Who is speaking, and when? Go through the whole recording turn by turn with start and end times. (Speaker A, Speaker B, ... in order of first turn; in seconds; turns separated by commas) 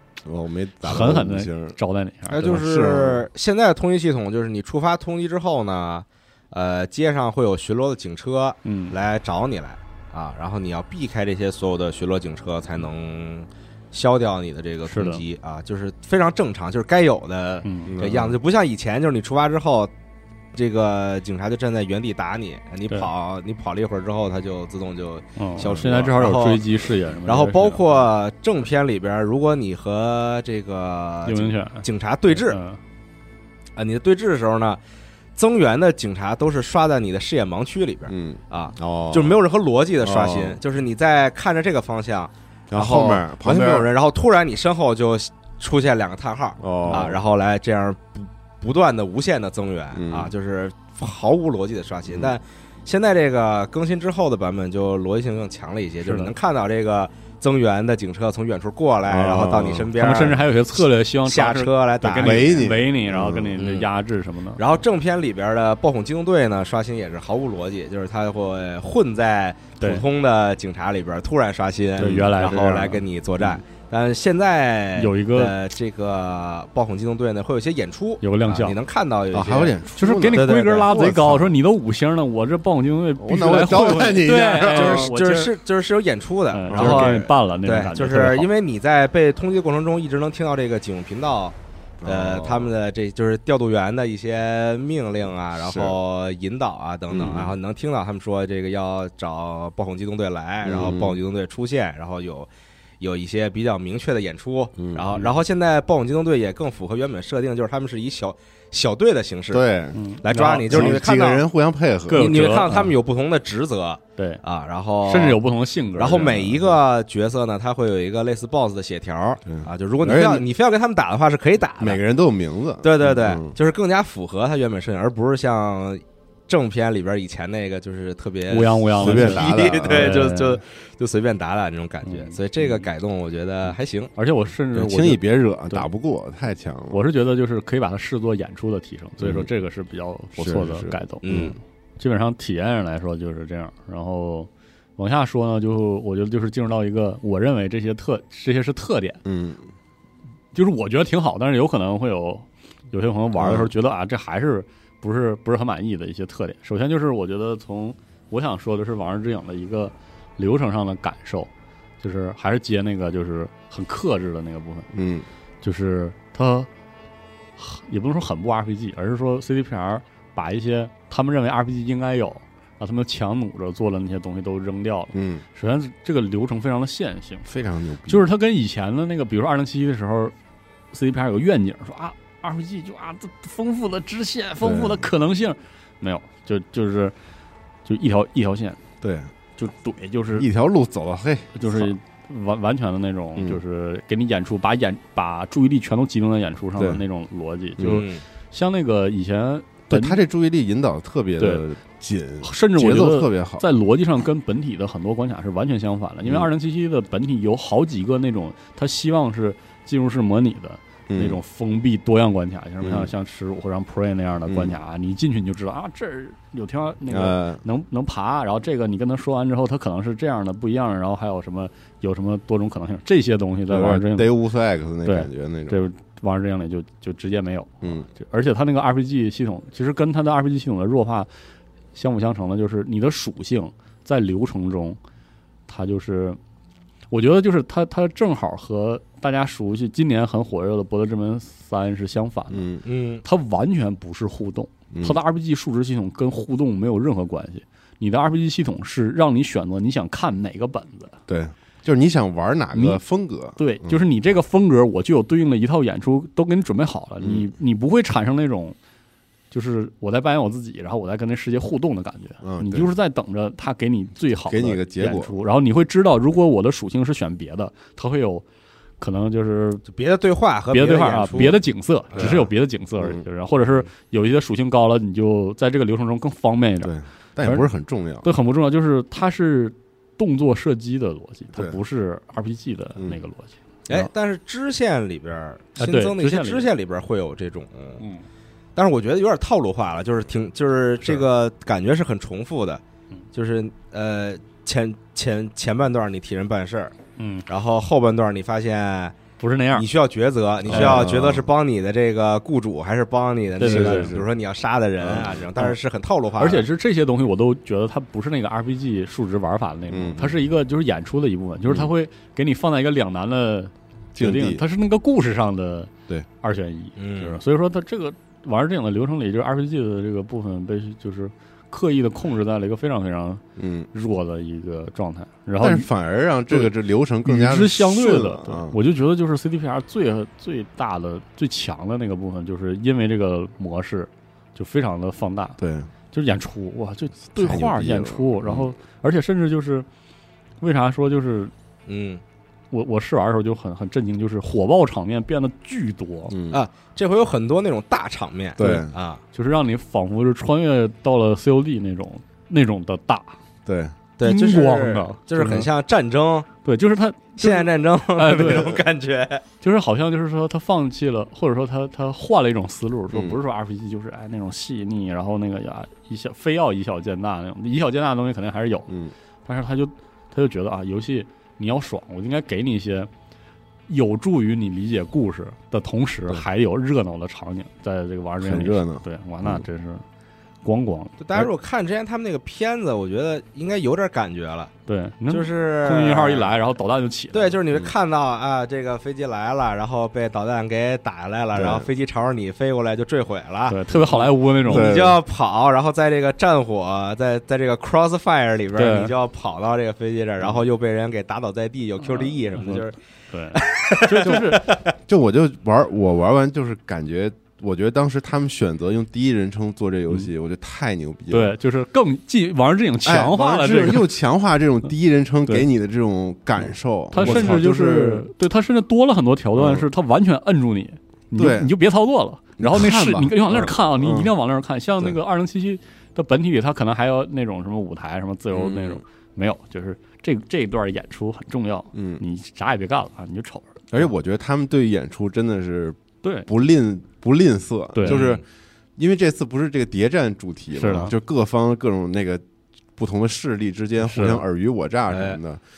Speaker A: 0.2-1.8, Speaker B: 0.8-2.6, Speaker A: 2.3-3.3, Speaker C: 2.3-19.9, Speaker B: 8.7-8.9, Speaker B: 14.9-15.2, Speaker B: 17.6-17.9, Speaker A: 17.9-18.4, Speaker C: 20.5-26.6, Speaker B: 25.4-27.8, Speaker A: 25.6-25.9, Speaker C: 27.2-32.6, Speaker B: 31.3-32.8, Speaker C: 33.8-34.8, Speaker C: 35.4-62.7, Speaker A: 38.1-39.4, Speaker A: 40.0-40.6, Speaker A: 42.7-43.9, Speaker A: 46.6-47.2, Speaker A: 50.0-50.3, Speaker B: 56.0-56.3, Speaker A: 59.1-59.9, Speaker B: 60.0-64.6, Speaker A: 62.2-63.6, Speaker C: 63.6-63.9, Speaker C: 64.6-79.8, Speaker A: 72.0-72.6, Speaker B: 72.0-73.5, Speaker B: 75.0-75.5, Speaker B: 78.2-78.8, Speaker A: 79.3-81.6, Speaker B: 80.0-85.5, Speaker C: 80.3-80.9, Speaker A: 83.2-85.1, Speaker C: 84.2-102.5, Speaker B: 86.5-88.5, Speaker A: 86.7-87.3, Speaker A: 92.0-92.7, Speaker A: 95.6-96.0, Speaker A: 97.1-97.5, Speaker A: 100.6-101.2, Speaker C: 103.0-109.6, Speaker A: 104.8-105.1, Speaker A: 109.5-110.0, Speaker B: 109.9-111.0, Speaker C: 110.2-111.5, Speaker A: 110.7-112.5, Speaker B: 112.1-112.9, Speaker C: 112.1-115.4, Speaker B: 115.0-116.6, Speaker C: 116.0-122.0, Speaker A: 119.5-120.5, Speaker A: 121.8-123.5, Speaker C: 122.8-134.1, Speaker B: 128.5-130.6, Speaker A: 129.0-130.2, Speaker B: 132.1-132.4, Speaker B: 134.2-135.9, Speaker A: 134.7-137.0, Speaker B: 136.9-149.2, Speaker A: 139.2-139.5, Speaker A: 140.4-141.5, Speaker C: 141.2-141.6, Speaker A: 149.2-149.7, Speaker B: 150.5-164.9, Speaker A: 153.4-153.7, Speaker A: 164.9-165.3, Speaker B: 165.6-166.7, Speaker B: 167.6-177.5, Speaker A: 175.1-175.4, Speaker A: 177.5-178.3, Speaker B: 178.1-180.3, Speaker B: 180.9-187.2, Speaker A: 184.6-185.1, Speaker B: 187.8-188.8, Speaker A: 189.0-189.3, Speaker B: 189.6-190.5, Speaker A: 190.4-191.9, Speaker B: 191.6-200.2, Speaker A: 196.8-197.0, Speaker A: 197.8-198.0, Speaker C: 197.8-198.2, Speaker A: 199.9-203.7, Speaker B: 201.4-201.7, Speaker B: 202.4-224.3, Speaker A: 211.1-211.4, Speaker A: 212.8-213.1, Speaker A: 214.5-214.8, Speaker A: 217.1-217.6, Speaker A: 223.7-225.8, Speaker B: 225.1-231.3, Speaker A: 227.8-228.1, Speaker B: 231.9-235.0, Speaker B: 235.7-236.4, Speaker B: 237.1-242.7, Speaker A: 242.5-242.8, Speaker C: 242.8-243.2, Speaker B: 243.2-251.2, Speaker A: 244.9-245.2, Speaker A: 251.3-254.0, Speaker B: 252.7-253.0, Speaker B: 253.6-258.8, Speaker A: 257.2-257.5, Speaker B: 259.5-268.4, Speaker A: 262.4-262.9, Speaker A: 264.5-265.4, Speaker B: 269.0-269.8, Speaker C: 269.9-271.6, Speaker B: 270.7-277.7, Speaker C: 272.1-272.4, Speaker A: 272.1-273.2, Speaker A: 276.8-278.3, Speaker B: 278.2-284.1, Speaker A: 281.5-281.8, Speaker C: 283.9-288.0, Speaker B: 285.8-286.7, Speaker B: 288.0-288.2, Speaker C: 288.8-292.8, Speaker C: 293.3-296.9, Speaker B: 297.2-297.5, Speaker C: 297.5-299.2, Speaker B: 299.4-299.9, Speaker C: 299.7-306.7, Speaker A: 300.7-301.5, Speaker B: 300.7-301.1, Speaker B: 303.6-304.1, Speaker A: 303.6-304.3, Speaker A: 305.0-305.5, Speaker B: 306.4-325.9, Speaker A: 309.9-310.4, Speaker A: 314.1-314.6, Speaker C: 317.0-317.4, Speaker A: 323.6-323.9, Speaker A: 325.6-328.8, Speaker B: 327.2-335.6, Speaker A: 335.6-335.9, Speaker B: 336.1-339.9, Speaker A: 337.4-338.7, Speaker B: 340.6-341.5, Speaker C: 341.9-342.2, Speaker B: 342.7-346.4, Speaker A: 346.3-346.6, Speaker C: 346.5-349.2, Speaker A: 348.6-348.9, Speaker B: 348.6-353.4, Speaker A: 353.7-354.0, Speaker C: 354.2-356.5, Speaker B: 354.2-355.7, Speaker B: 356.6-358.8, Speaker C: 357.4-359.4, Speaker B: 359.6-368.9, Speaker A: 363.1-363.4, Speaker A: 368.9-369.1, Speaker B: 369.4-373.1, Speaker B: 373.9-380.0, Speaker A: 378.4-379.6, Speaker B: 380.6-381.2, Speaker C: 381.2-384.7, Speaker B: 384.9-387.6, Speaker C: 385.3-386.5, Speaker C: 387.3-403.0, Speaker A: 391.6-391.9, Speaker B: 393.7-395.0, Speaker A: 394.7-395.2, Speaker B: 398.8-399.1, Speaker B: 402.1-404.7, Speaker C: 403.5-404.8, Speaker A: 405.1-411.6, Speaker B: 411.3-414.1, Speaker A: 413.1-418.3, Speaker B: 417.1-434.1, Speaker A: 419.6-419.9, Speaker A: 421.4-421.7, Speaker A: 422.6-424.3, Speaker A: 428.5-429.0, Speaker A: 431.9-432.2, Speaker A: 433.9-438.4, Speaker B: 436.2-436.5, Speaker B: 437.9-438.2, Speaker C: 438.1-438.4, Speaker A: 439.0-442.4, Speaker B: 440.8-441.1, Speaker A: 443.0-445.6, Speaker B: 444.0-444.4, Speaker C: 445.1-445.4